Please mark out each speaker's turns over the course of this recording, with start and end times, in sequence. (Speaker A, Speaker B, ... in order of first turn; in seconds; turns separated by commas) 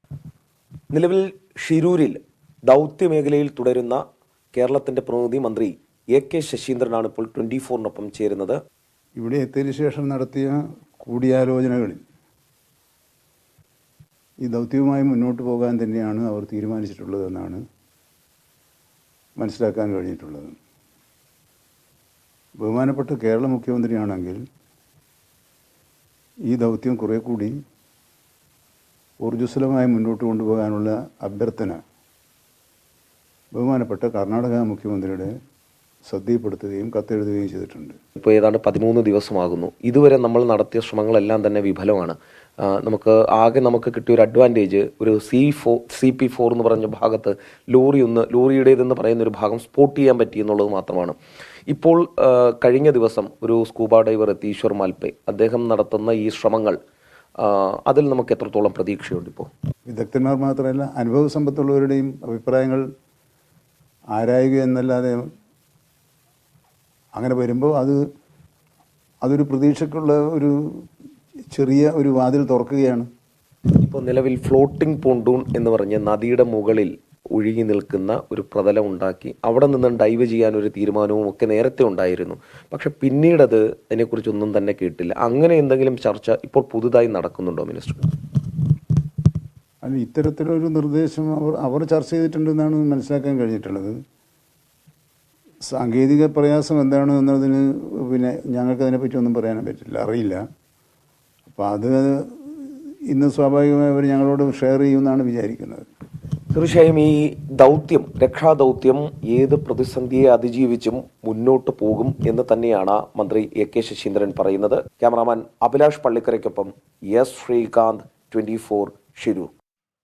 Speaker A: 0.9-4.0, Speaker A: 4.5-8.6, Speaker B: 9.2-12.0, Speaker B: 14.4-17.6, Speaker B: 19.4-20.5, Speaker B: 22.6-24.4, Speaker B: 26.5-27.5, Speaker B: 29.2-31.8, Speaker B: 33.5-35.3, Speaker B: 36.1-37.9, Speaker A: 38.2-51.1, Speaker A: 51.7-56.8, Speaker A: 57.4-59.5, Speaker B: 59.9-62.8, Speaker B: 64.1-65.2, Speaker B: 67.1-68.0, Speaker B: 69.2-70.5, Speaker B: 71.5-73.0, Speaker A: 73.8-88.1, Speaker B: 89.8-94.0, Speaker B: 95.7-100.4, Speaker B: 101.5-105.8, Speaker A: 106.5-119.5